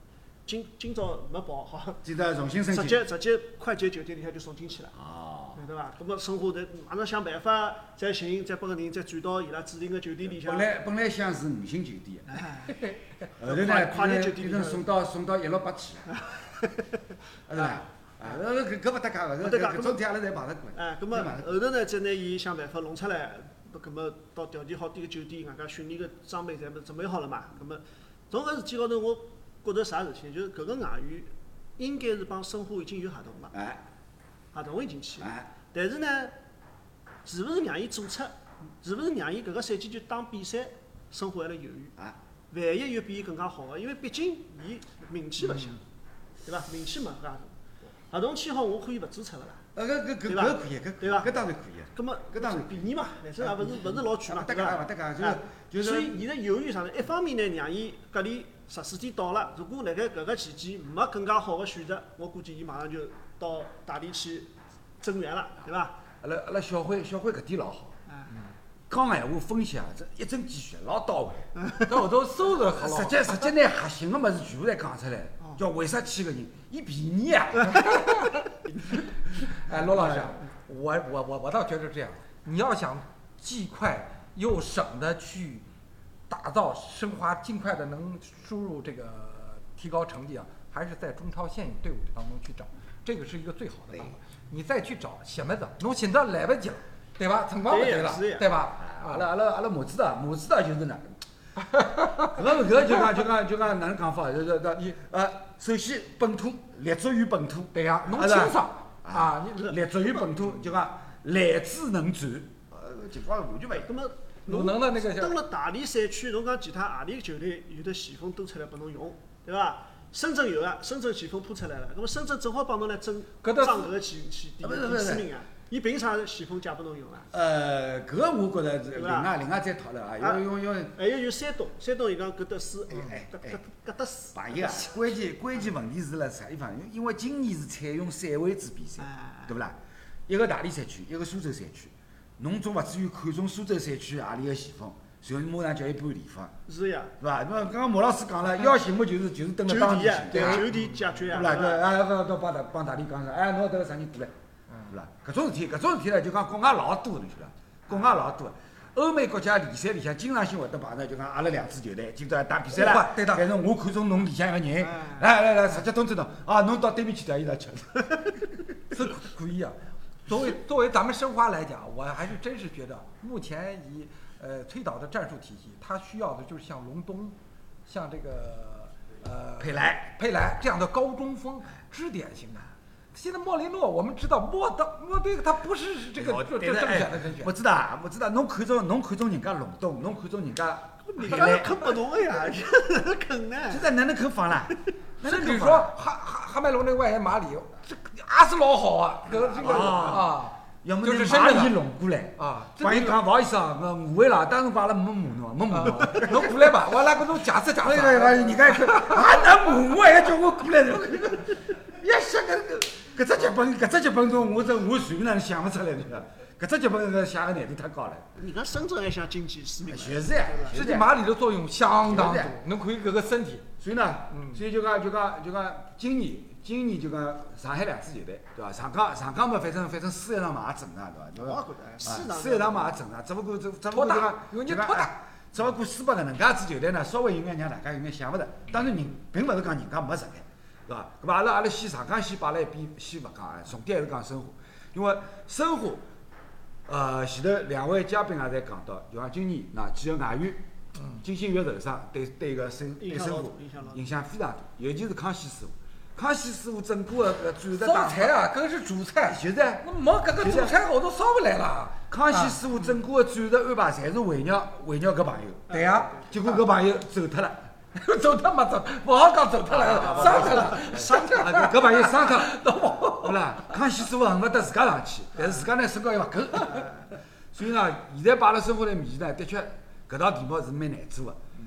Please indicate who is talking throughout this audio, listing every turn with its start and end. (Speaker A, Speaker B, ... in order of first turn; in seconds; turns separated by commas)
Speaker A: 0.5-2.0, Speaker B: 2.0-3.0, Speaker A: 2.7-5.0, Speaker B: 4.9-5.6, Speaker A: 5.5-10.7, Speaker B: 10.4-12.4, Speaker A: 12.3-14.8, Speaker B: 13.4-16.2, Speaker A: 16.1-17.8, Speaker B: 17.5-21.5, Speaker A: 19.4-20.0, Speaker A: 20.7-33.5, Speaker B: 33.5-33.8, Speaker A: 34.5-36.4, Speaker B: 35.2-35.5, Speaker A: 37.2-41.9, Speaker A: 42.5-45.8, Speaker A: 46.4-49.6, Speaker B: 49.7-52.8, Speaker A: 50.3-66.0, Speaker B: 53.4-56.2, Speaker B: 66.2-68.0, Speaker B: 68.9-71.5, Speaker A: 71.6-71.9, Speaker C: 71.8-73.3, Speaker B: 72.6-78.0, Speaker C: 77.8-78.4, Speaker C: 79.4-85.7, Speaker B: 79.6-80.4, Speaker C: 86.3-99.2, Speaker A: 97.7-98.5, Speaker B: 98.8-101.2, Speaker C: 101.6-103.0, Speaker B: 102.3-113.9, Speaker C: 107.7-109.8, Speaker A: 113.7-127.3, Speaker C: 114.5-115.4, Speaker C: 123.4-123.9, Speaker B: 124.6-125.3, Speaker B: 127.3-130.9, Speaker A: 128.9-129.3, Speaker A: 130.2-135.1, Speaker B: 132.9-133.6, Speaker B: 134.3-146.5, Speaker A: 139.0-139.6, Speaker A: 146.7-147.1, Speaker B: 147.2-150.7, Speaker A: 149.7-151.8, Speaker C: 150.3-151.3, Speaker B: 151.3-154.3, Speaker B: 154.9-168.5, Speaker C: 162.7-163.5, Speaker A: 164.8-165.2, Speaker C: 168.9-187.5, Speaker B: 179.6-180.1, Speaker B: 186.2-191.9, Speaker A: 191.1-193.9, Speaker B: 193.7-195.9, Speaker C: 195.2-201.8, Speaker B: 199.5-206.7, Speaker C: 202.4-203.2, Speaker C: 205.7-209.5, Speaker B: 207.8-218.3, Speaker A: 218.3-220.8, Speaker B: 219.9-221.2, Speaker C: 220.7-223.7, Speaker B: 222.1-222.6, Speaker B: 223.8-246.0, Speaker C: 224.3-224.6, Speaker A: 231.4-233.0, Speaker C: 233.9-235.1, Speaker B: 246.9-250.6, Speaker C: 251.0-251.2, Speaker B: 251.2-258.3, Speaker A: 253.0-254.0, Speaker C: 257.7-262.6, Speaker B: 259.2-259.9, Speaker B: 260.4-260.7, Speaker B: 262.1-265.7, Speaker A: 265.7-266.4, Speaker C: 265.7-266.2, Speaker B: 266.2-267.7, Speaker C: 267.9-273.8, Speaker B: 269.7-281.4, Speaker A: 269.9-270.9